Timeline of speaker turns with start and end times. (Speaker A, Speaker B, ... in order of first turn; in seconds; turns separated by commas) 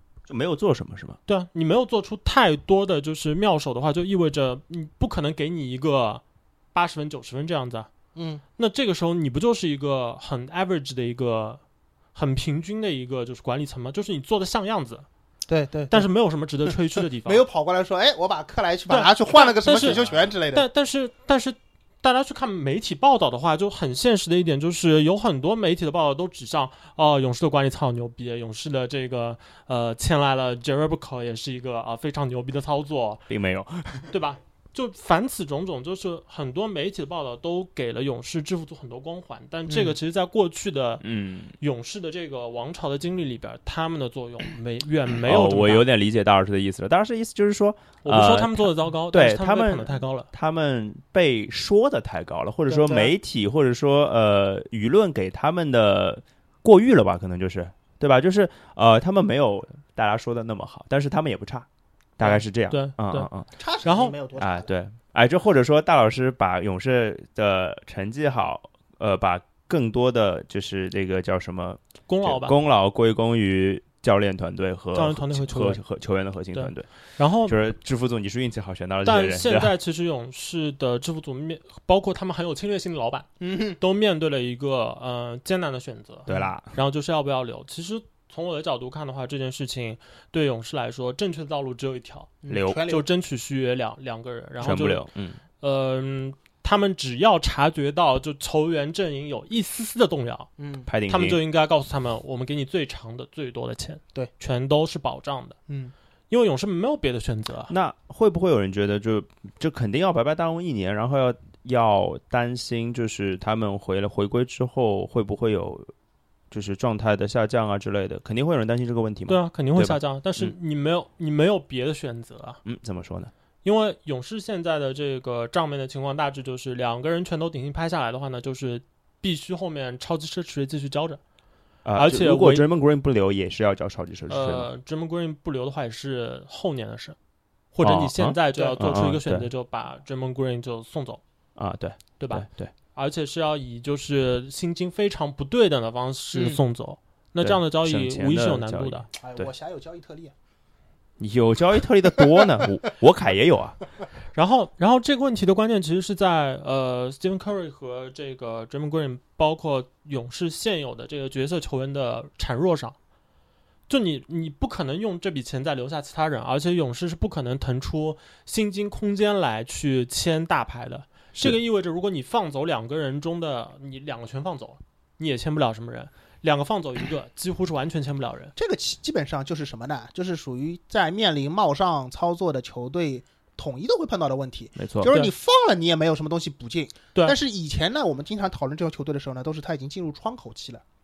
Speaker A: 0.3-1.2, Speaker B: 1.3-6.2, Speaker B: 6.7-7.9, Speaker C: 8.2-8.4, Speaker B: 8.6-11.6, Speaker B: 12.1-15.1, Speaker C: 15.5-16.1, Speaker B: 15.9-17.4, Speaker C: 16.7-20.6, Speaker B: 18.9-33.3, Speaker A: 33.3-34.1, Speaker B: 34.1-41.0, Speaker C: 39.7-39.9, Speaker A: 41.0-41.5, Speaker B: 41.6-45.8, Speaker A: 45.2-61.6, Speaker B: 48.0-50.3, Speaker C: 52.7-53.1, Speaker A: 62.2-63.5, Speaker B: 62.2-63.3, Speaker C: 63.6-64.7, Speaker B: 63.8-64.2, Speaker A: 64.4-76.9, Speaker B: 72.1-72.5, Speaker B: 74.9-75.8, Speaker B: 76.5-77.6, Speaker A: 77.4-79.7, Speaker B: 79.0-95.0, Speaker C: 83.4-83.8, Speaker A: 86.3-86.7, Speaker C: 92.4-93.0, Speaker A: 92.5-92.8, Speaker A: 94.6-95.4, Speaker B: 95.6-100.5, Speaker C: 100.6-100.8, Speaker A: 100.8-101.4, Speaker B: 101.1-105.6, Speaker B: 106.3-107.7, Speaker A: 107.7-115.9, Speaker A: 116.5-120.5, Speaker B: 119.3-122.6, Speaker A: 122.7-123.3, Speaker B: 123.6-131.2, Speaker A: 131.8-134.7, Speaker B: 131.9-132.7, Speaker B: 134.3-137.2, Speaker B: 137.7-141.2, Speaker A: 137.8-139.5, Speaker A: 141.6-142.7, Speaker B: 142.2-149.1, Speaker C: 146.3-146.6, Speaker A: 147.4-149.5, Speaker C: 149.2-150.3, Speaker A: 151.2-153.8, Speaker B: 154.3-162.9, Speaker B: 163.9-178.5, Speaker C: 178.6-190.8, Speaker A: 184.8-185.1